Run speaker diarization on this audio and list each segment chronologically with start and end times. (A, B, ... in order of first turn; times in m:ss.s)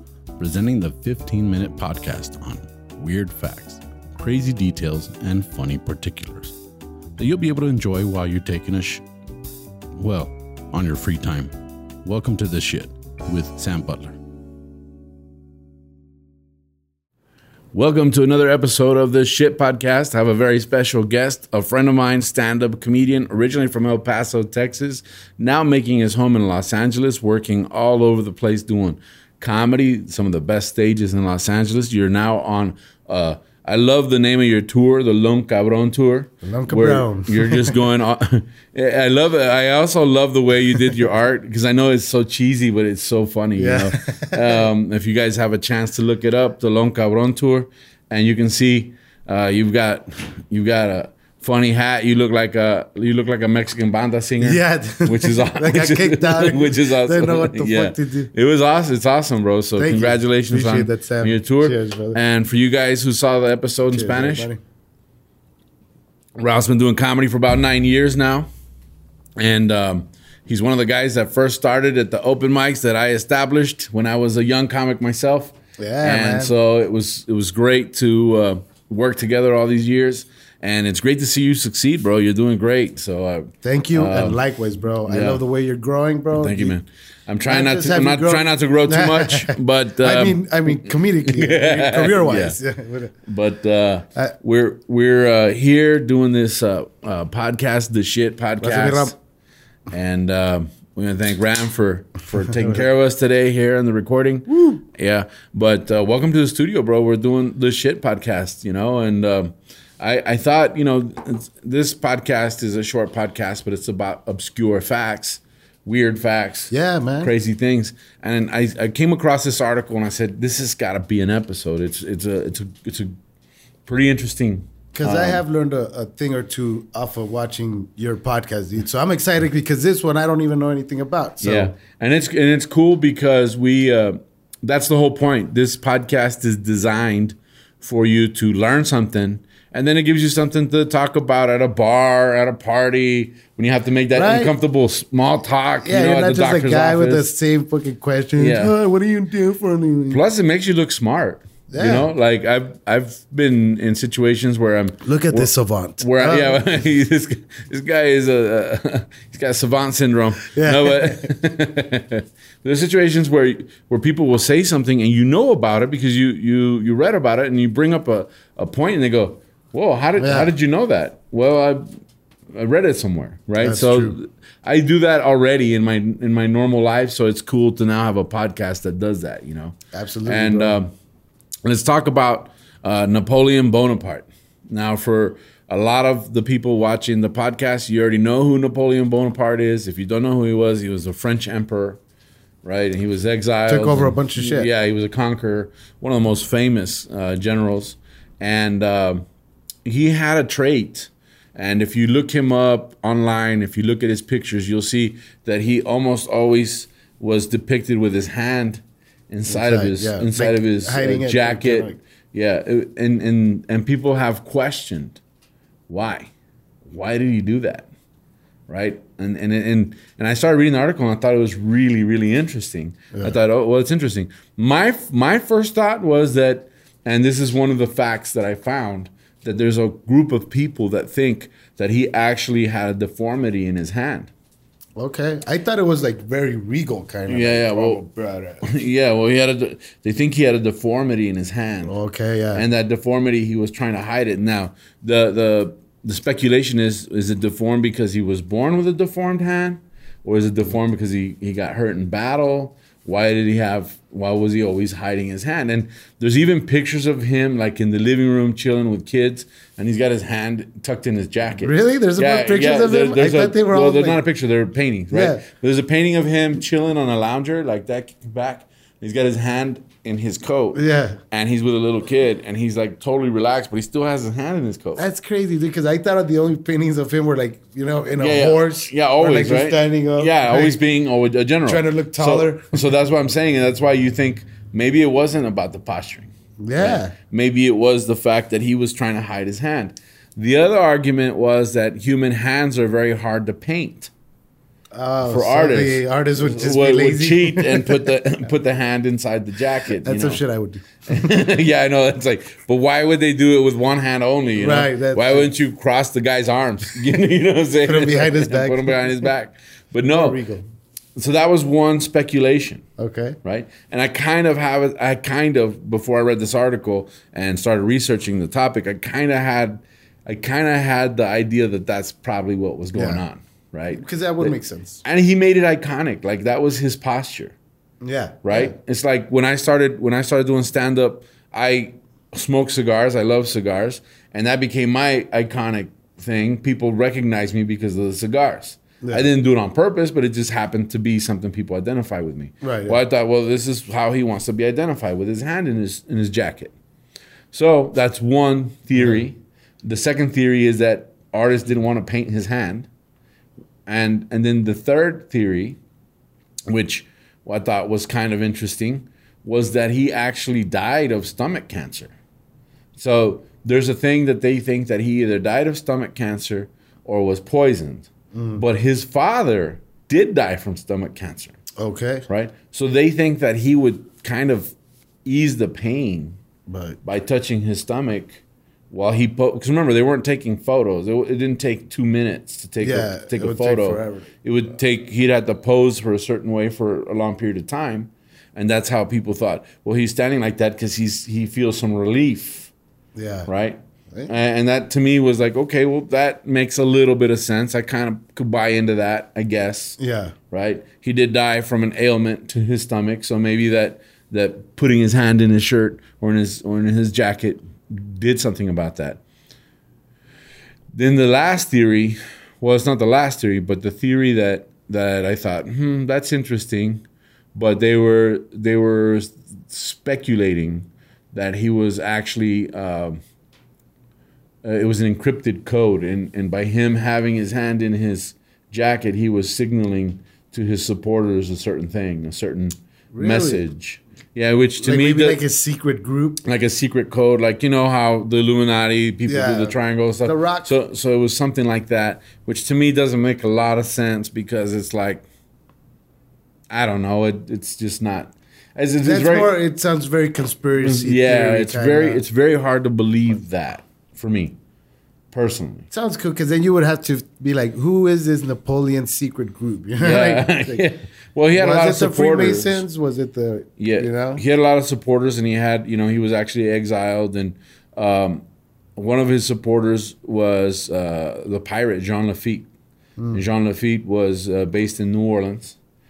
0:00.4-0:06.6 A
0:07.2-0:09.0 A
0:10.0-0:11.5 A
0:12.0-0:14.2 A
0:17.7-1:04.5 A
0:36.4-0:37.8 B
0:43.6-0:44.6 B
0:54.4-0:58.3 B
0:59.8-1:02.2 B
1:03.9-1:04.6 B
1:06.4-1:08.5 A
1:09.4-1:24.4 A
1:15.8-1:16.5 B
1:23.6-1:26.8 B
1:25.0-1:25.4 A
1:26.4-1:32.6 A
1:27.4-1:33.1 B
1:33.2-1:39.2 A
1:38.6-1:39.2 B
1:39.9-2:03.1 A
1:56.7-1:57.3 B
2:03.9-2:05.4 A
2:05.0-2:11.7 B
2:11.4-2:27.3 A
2:24.1-2:24.6 B
2:25.8-2:30.2 B
2:28.4-2:28.7 A
2:30.1-2:51.9 A
2:31.7-2:32.1 B
2:35.0-2:36.6 B
2:40.5-2:41.3 B
2:50.2-2:50.5 B
2:52.5-2:59.8 A
2:53.6-2:54.2 B
2:59.9-3:00.8 B
3:00.3-3:00.9 A
3:01.7-3:12.0 A
3:12.6-3:19.3 A
3:13.7-3:14.7 B
3:19.8-3:35.2 A
3:29.5-3:32.0 B
3:35.9-3:36.3 A
3:36.9-3:37.9 A
3:38.7-3:54.3 A
3:55.0-3:58.7 B
3:57.3-3:58.0 A
3:58.6-4:02.0 A
4:01.8-4:02.6 B
4:02.5-4:35.1 A
4:21.6-4:24.2 B
4:25.1-4:25.4 B
4:30.7-4:31.2 B
4:35.0-4:40.8 B
4:38.2-4:54.1 A
4:41.7-4:42.7 B
4:46.6-4:47.1 B
4:54.9-4:58.1 B
4:55.2-5:00.4 A
5:00.0-5:01.4 B
5:01.1-5:10.4 A
5:04.6-5:05.5 B
5:07.8-5:09.1 B
5:10.1-5:10.6 B
5:11.2-5:12.8 A
5:13.0-5:13.4 B
5:13.4-5:27.6 A
5:22.9-5:23.2 B
5:23.9-5:25.0 B
5:28.0-5:28.7 B
5:28.4-5:46.7 A
5:42.6-5:43.0 B
5:47.5-5:52.9 A
5:53.9-5:55.8 A
5:56.7-6:02.1 A
6:03.0-6:11.6 A
6:08.3-6:08.6 B
6:11.8-6:12.3 B
6:12.3-6:16.4 A
6:16.7-6:17.0 B
6:17.0-6:32.7 A
6:22.8-6:24.3 B
6:33.2-6:33.5 B
6:33.5-6:40.0 A
6:40.0-6:40.3 B
6:40.5-6:49.2 A
6:50.9-7:03.2 A
7:04.6-7:15.4 A
7:13.1-7:13.6 B
7:14.8-7:16.4 B
7:16.4-7:25.2 A
7:19.3-7:20.7 B
7:26.7-7:29.6 A
7:29.0-7:32.2 B
7:30.8-7:34.6 A
7:35.3-7:35.9 A
7:35.9-7:40.8 B
7:40.0-7:42.8 A
7:41.6-7:44.4 B
7:43.8-7:48.4 A
7:49.0-7:52.7 A
7:53.3-7:55.8 A